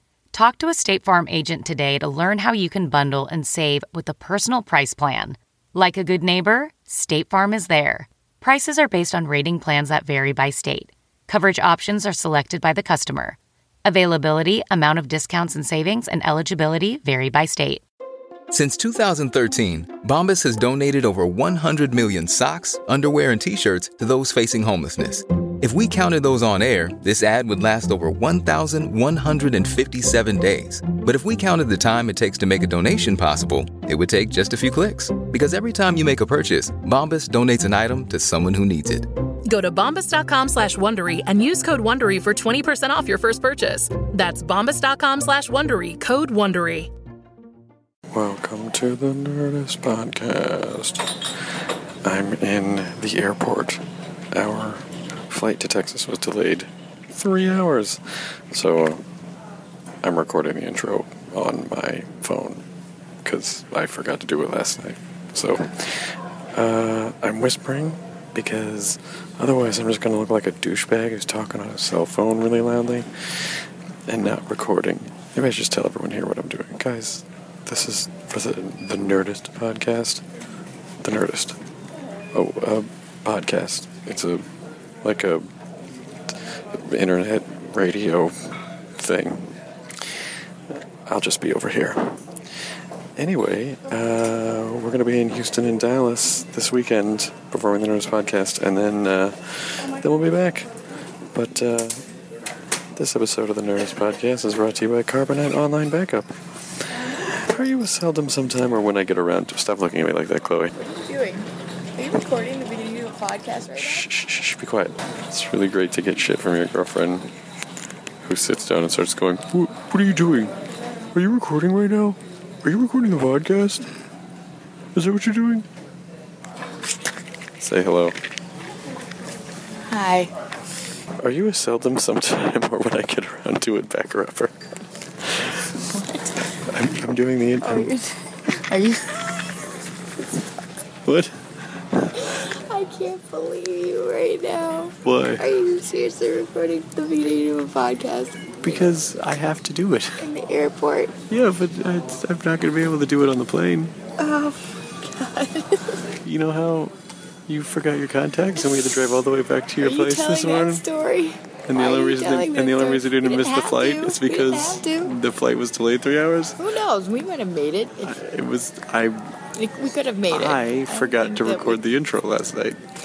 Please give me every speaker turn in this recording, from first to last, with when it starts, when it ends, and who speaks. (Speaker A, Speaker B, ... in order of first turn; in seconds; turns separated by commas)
Speaker A: 0.3-17.8, Speaker B: 18.5-39.1, Speaker C: 39.5-46.9, Speaker D: 48.1-51.3, Speaker D: 52.0-53.8, Speaker D: 54.3-59.0, Speaker D: 60.0-62.6, Speaker D: 63.2-80.2, Speaker D: 81.0-81.6, Speaker D: 82.3-84.4, Speaker D: 85.0-85.5, Speaker D: 86.3-90.2, Speaker D: 90.7-92.2, Speaker D: 93.2-100.7, Speaker D: 101.3-102.0, Speaker D: 102.9-106.3, Speaker D: 107.0-110.7, Speaker E: 110.7-114.1, Speaker D: 113.8-117.3, Speaker D: 118.2-120.5, Speaker D: 121.1-123.9, Speaker D: 124.9-125.7, Speaker D: 127.6-128.2, Speaker E: 129.9-130.3, Speaker D: 131.2-134.5, Speaker E: 135.9-136.3, Speaker D: 136.7-137.9, Speaker E: 137.6-139.2, Speaker D: 141.1-141.3, Speaker E: 142.3-148.5, Speaker D: 145.0-145.4, Speaker D: 148.6-150.2, Speaker E: 150.2-151.1, Speaker D: 151.3-153.9, Speaker E: 154.2-156.0, Speaker D: 156.2-156.9, Speaker D: 157.5-160.8, Speaker E: 159.8-165.1, Speaker D: 161.7-166.6, Speaker E: 166.6-168.2, Speaker D: 168.0-169.3, Speaker E: 169.6-171.8, Speaker D: 170.3-172.8